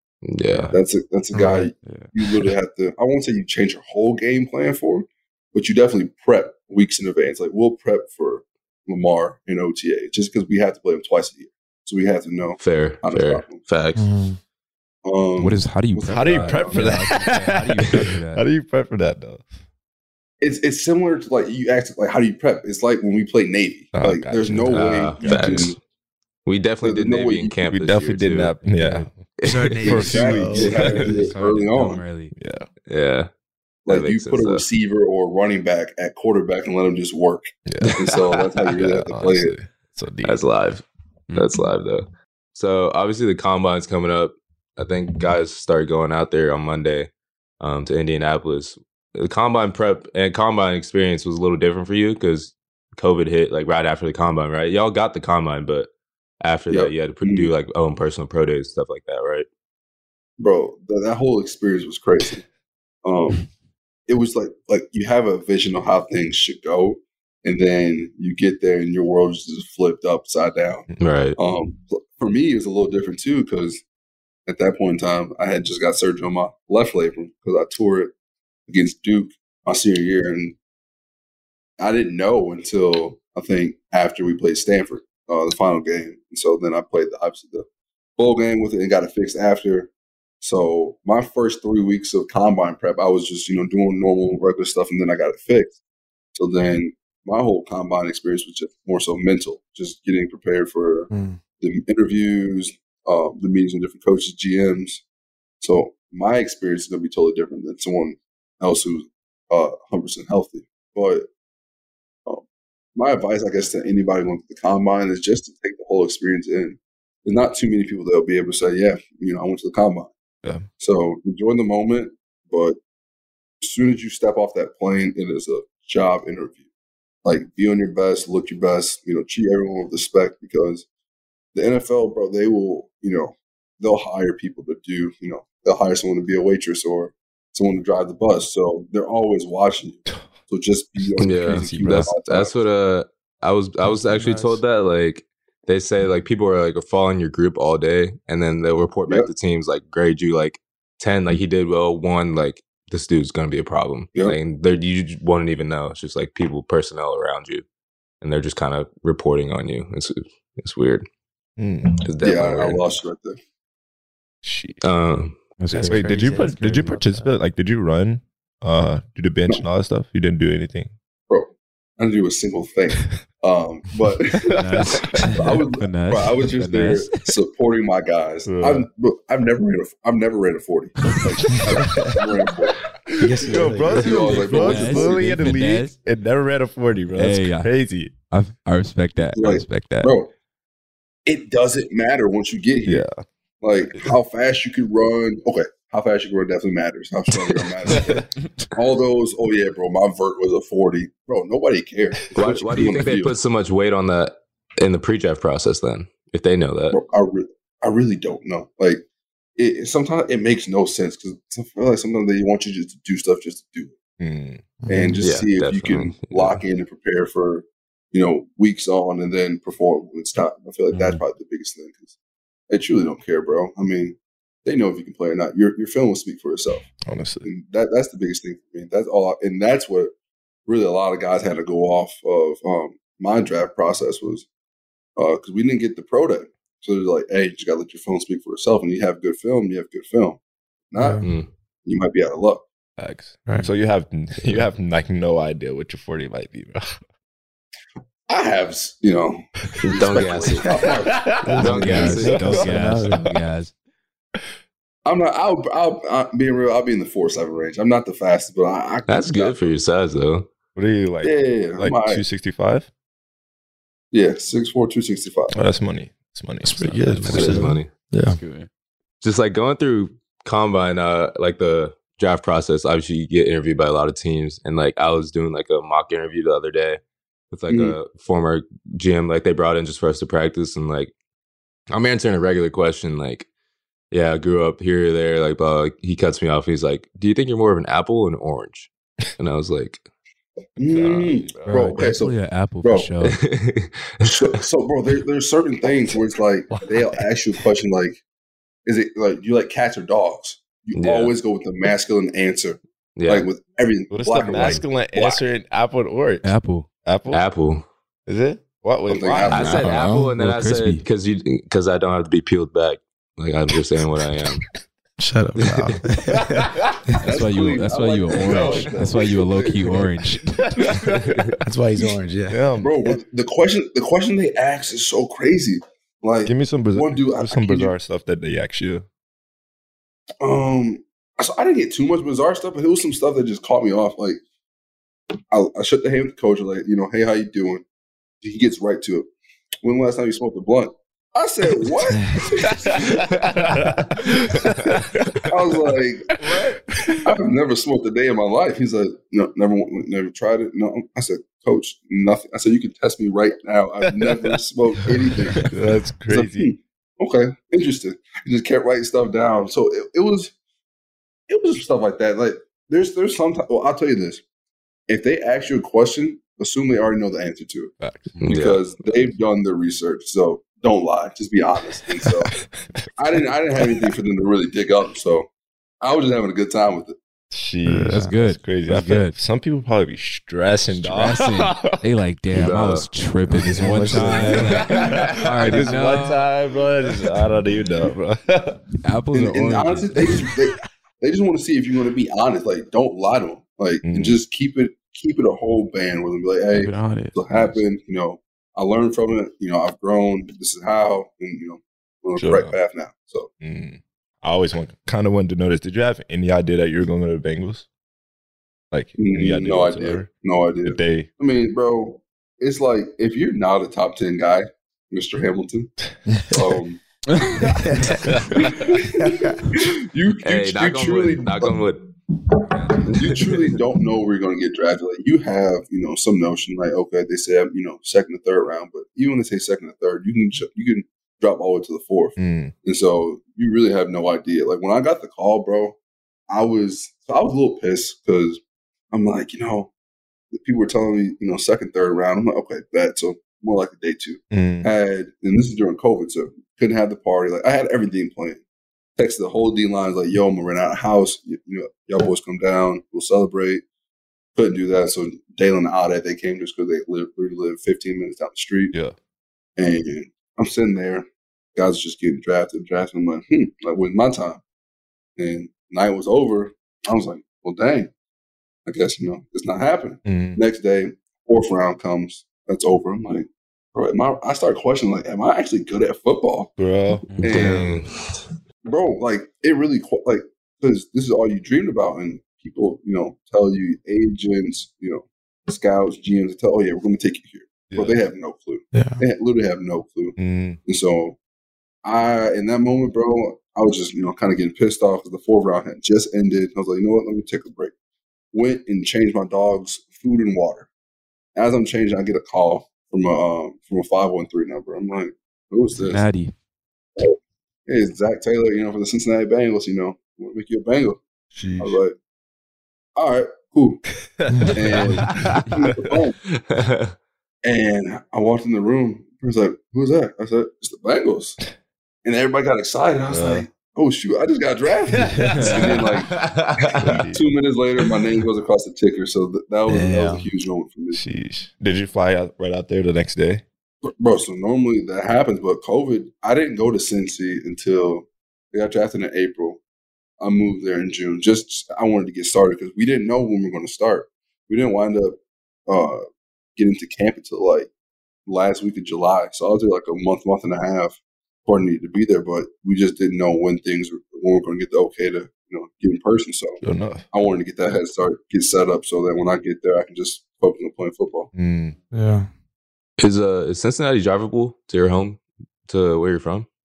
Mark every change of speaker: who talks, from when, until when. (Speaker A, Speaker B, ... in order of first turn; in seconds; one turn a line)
Speaker A: 0.2-0.7
Speaker B: 0.5-0.8
Speaker C: 0.7-13.6
Speaker D: 1.3-1.7
Speaker B: 1.8-2.1
Speaker A: 12.6-14.0
Speaker D: 13.9-14.4
Speaker C: 15.0-17.1
Speaker B: 15.4-18.4
Speaker E: 16.1-19.5
Speaker C: 20.4-25.8
Speaker E: 23.9-25.7
Speaker A: 24.7-25.8
Speaker A: 26.4-28.5
Speaker C: 26.8-27.6
Speaker E: 27.7-31.1
Speaker B: 28.6-29.1
Speaker A: 29.4-30.1
Speaker D: 29.4-31.2
Speaker B: 29.9-32.3
Speaker C: 29.9-32.0
Speaker E: 32.3-32.7
Speaker A: 32.9-33.3
Speaker C: 33.9-39.5
Speaker A: 33.9-34.6
Speaker E: 37.6-38.0
Speaker E: 38.8-40.4
Speaker A: 40.2-55.9
Speaker A: 56.4-59.5
Speaker C: 56.7-57.5
Speaker C: 60.4-62.4
Speaker C: 63.0-63.5
Speaker C: 64.1-73.8
Speaker A: 71.0-71.4
Speaker C: 74.5-78.1
Speaker C: 78.7-80.5
Speaker C: 81.8-87.7
Speaker C: 88.2-89.9
Speaker C: 90.4-95.8
Speaker C: 96.3-105.0
Speaker D: 101.1-101.4
Speaker C: 105.6-111.3
Speaker C: 112.2-120.1
Speaker C: 120.8-122.8
Speaker C: 123.6-126.6
Speaker C: 127.2-130.8
Speaker C: 131.5-142.6
Speaker A: 141.2-157.6
Speaker B: 141.5-142.1
Speaker D: 144.3-144.5
Speaker A: 158.2-161.0
Speaker E: 161.6-161.9
Speaker A: 162.0-162.8
Speaker C: 162.2-163.4
Speaker E: 164.4-164.8
Speaker A: 164.8-165.4
Speaker B: 165.6-167.3
Speaker D: 165.7-167.0
Speaker E: 165.8-170.9
Speaker C: 171.3-182.8
Speaker B: 174.4-177.1
Speaker E: 178.4-178.8
Speaker E: 181.4-182.2
Speaker E: 182.8-188.1
Speaker D: 183.2-184.4
Speaker C: 183.7-185.3
Speaker B: 184.5-185.9
Speaker B: 187.1-190.1
Speaker C: 189.3-190.3
Speaker C: 191.2-193.0
Speaker E: 192.8-193.2
Speaker C: 193.6-203.3
Speaker E: 197.8-198.2
Speaker A: 202.3-207.0
Speaker C: 206.9-209.0
Speaker C: 209.6-214.0
Speaker E: 214.2-214.6
Speaker D: 214.8-215.2
Speaker C: 214.9-222.1
Speaker A: 215.2-216.6
Speaker C: 222.7-226.9
Speaker E: 227.0-227.5
Speaker C: 227.4-230.1
Speaker C: 230.7-234.4
Speaker C: 235.2-240.4
Speaker C: 240.9-241.3
Speaker D: 241.0-241.3
Speaker C: 241.8-242.6
Speaker E: 243.0-247.0
Speaker D: 243.4-243.7
Speaker C: 248.3-251.3
Speaker A: 249.8-250.7
Speaker E: 250.8-253.4
Speaker D: 251.4-253.2
Speaker A: 251.5-252.6
Speaker B: 251.6-253.7
Speaker C: 255.0-259.8
Speaker A: 259.1-260.5
Speaker E: 260.8-262.9
Speaker C: 261.2-262.2
Speaker C: 264.1-265.6
Speaker E: 265.5-267.7
Speaker D: 266.6-268.4
Speaker A: 267.2-267.9
Speaker B: 268.3-268.7
Speaker E: 268.4-268.6
Speaker A: 269.2-281.1
Speaker C: 277.7-277.9
Speaker A: 281.9-283.5
Speaker A: 284.1-290.1
Speaker C: 290.8-293.1
Speaker E: 290.8-292.0
Speaker B: 291.7-293.4
Speaker A: 293.3-294.1
Speaker C: 294.2-298.2
Speaker C: 298.9-305.4
Speaker A: 300.9-301.3
Speaker A: 303.2-303.5
Speaker E: 304.1-307.4
Speaker B: 306.4-306.9
Speaker A: 307.3-307.9
Speaker E: 308.3-310.0
Speaker C: 309.1-309.9
Speaker A: 309.5-314.6
Speaker B: 309.7-311.0
Speaker D: 309.8-310.3
Speaker D: 315.2-317.1
Speaker E: 316.4-316.9
Speaker B: 317.2-320.6
Speaker C: 317.2-320.1
Speaker E: 318.3-318.9
Speaker E: 320.5-321.5
Speaker D: 321.6-322.7
Speaker E: 322.5-323.1
Speaker C: 322.8-327.9
Speaker E: 326.4-329.0
Speaker C: 330.4-334.4
Speaker C: 335.5-337.8
Speaker C: 338.4-339.3
Speaker C: 339.8-343.3
Speaker E: 342.7-345.4
Speaker C: 345.5-346.4
Speaker E: 346.4-347.2
Speaker C: 347.2-355.7
Speaker E: 354.0-354.6
Speaker E: 355.3-356.7
Speaker C: 356.3-360.5
Speaker C: 361.5-364.4
Speaker C: 365.1-367.9
Speaker E: 368.0-368.4
Speaker A: 368.4-368.8
Speaker C: 368.4-372.5
Speaker E: 372.5-373.1
Speaker C: 373.2-375.5
Speaker E: 373.8-374.0
Speaker C: 376.0-377.2
Speaker E: 377.5-382.0
Speaker D: 377.9-378.3
Speaker B: 378.1-379.3
Speaker B: 380.9-386.5
Speaker A: 382.5-383.1
Speaker D: 383.5-385.1
Speaker E: 383.8-388.8
Speaker B: 389.0-390.4
Speaker C: 389.3-403.5
Speaker E: 394.0-394.4
Speaker B: 396.7-397.8
Speaker E: 402.4-402.8
Speaker E: 403.6-407.9
Speaker E: 408.9-410.3
Speaker C: 409.2-415.9
Speaker E: 410.8-411.3
Speaker C: 416.5-417.0
Speaker D: 417.8-418.3
Speaker E: 418.2-418.9
Speaker C: 418.5-421.9
Speaker A: 420.4-422.0
Speaker C: 422.5-436.0
Speaker E: 422.7-423.0
Speaker A: 423.1-423.6
Speaker E: 432.4-432.7
Speaker C: 436.5-439.9
Speaker C: 440.5-448.6
Speaker E: 444.5-444.9
Speaker C: 449.2-453.8
Speaker C: 454.6-458.9
Speaker C: 459.8-464.6
Speaker C: 465.4-468.1
Speaker C: 468.9-476.7
Speaker E: 470.2-470.6
Speaker E: 476.8-478.0
Speaker B: 477.3-477.8
Speaker C: 477.4-477.9
Speaker A: 477.5-478.4
Speaker C: 478.9-491.4
Speaker E: 487.9-488.2
Speaker D: 488.9-489.2
Speaker E: 490.4-490.8
Speaker C: 492.0-497.9
Speaker C: 498.5-500.9
Speaker C: 501.5-506.3
Speaker B: 505.9-506.5
Speaker C: 507.2-511.2
Speaker E: 511.5-512.0
Speaker C: 511.8-512.1
Speaker C: 513.1-514.0
Speaker E: 514.2-516.1
Speaker C: 514.7-516.4
Speaker A: 516.5-517.1
Speaker C: 517.6-521.6
Speaker C: 522.2-531.2
Speaker E: 523.3-523.6
Speaker E: 525.1-527.5
Speaker B: 525.5-525.8
Speaker A: 526.0-527.0
Speaker D: 529.9-530.5
Speaker E: 531.1-533.6
Speaker C: 534.0-539.8
Speaker C: 540.4-545.4
Speaker C: 545.9-546.2
Speaker C: 546.8-547.9
Speaker C: 548.5-561.5
Speaker E: 556.8-557.3
Speaker E: 561.5-562.0
Speaker D: 562.1-562.5
Speaker A: 563.2-566.7